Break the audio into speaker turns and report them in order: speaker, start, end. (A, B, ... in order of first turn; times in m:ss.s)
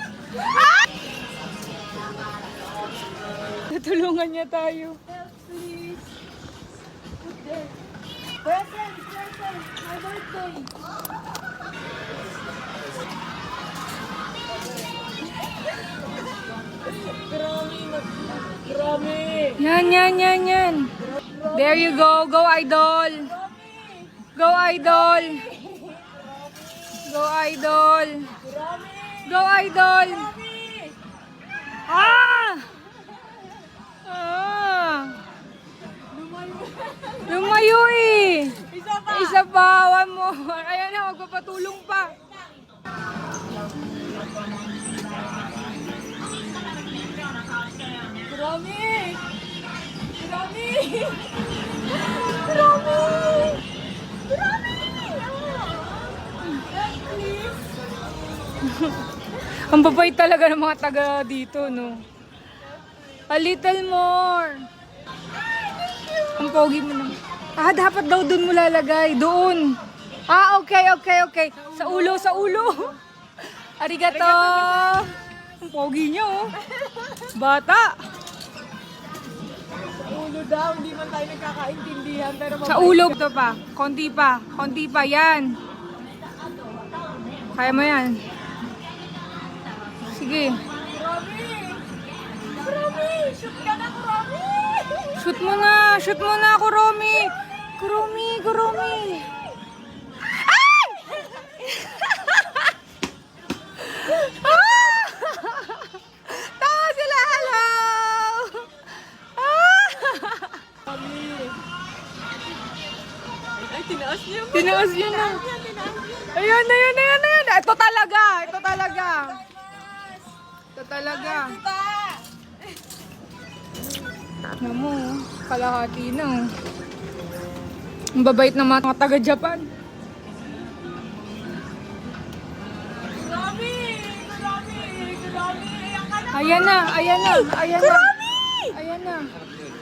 0:03.7-0:05.0 A
0:05.1-0:06.1 B
0:07.2-0:07.7 B
0:08.4-0:10.7 B
0:16.8-0:19.6 B
0:19.6-0:20.9 A
0:21.1-0:22.0 B
0:21.5-0:23.3 A
0:23.2-0:24.2 B
0:24.4-0:25.5 A
0:24.8-0:27.0 B
0:27.0-0:28.3 A
0:28.4-0:31.0 B
0:29.2-0:30.3 A
0:31.9-0:32.7 A
0:34.0-0:35.2 A
0:36.1-0:37.6 B
0:37.3-0:42.2 A
0:38.6-0:39.4 B
0:48.1-0:49.2 B
0:50.2-0:51.2 B
0:52.1-0:53.6 B
0:54.9-0:56.0 B
0:56.6-0:57.6 B
0:58.6-1:02.0 A
1:03.3-1:04.7 A
1:06.3-1:09.8 A
1:10.3-1:13.0 A
1:11.6-1:12.8 B
1:13.6-1:16.5 A
1:14.1-1:15.1 B
1:17.3-1:18.0 A
1:19.8-1:23.2 B
1:22.7-1:25.6 A
1:27.5-1:28.2 A
1:30.1-1:30.6 A
1:30.8-1:31.8 B
1:32.5-1:35.1 B
1:35.2-1:39.3 A
1:43.9-1:48.7 A
1:49.4-1:50.6 A
1:50.9-1:51.6 B
1:53.5-1:56.3 B
1:54.5-1:55.4 A
1:56.3-1:59.4 A
1:58.5-2:00.3 B
2:00.8-2:01.6 A
2:01.0-2:02.2 B
2:04.6-2:06.5 A
2:08.2-2:09.7 A
2:13.0-2:18.0 B
2:16.3-2:18.1 A
2:18.7-2:19.3 A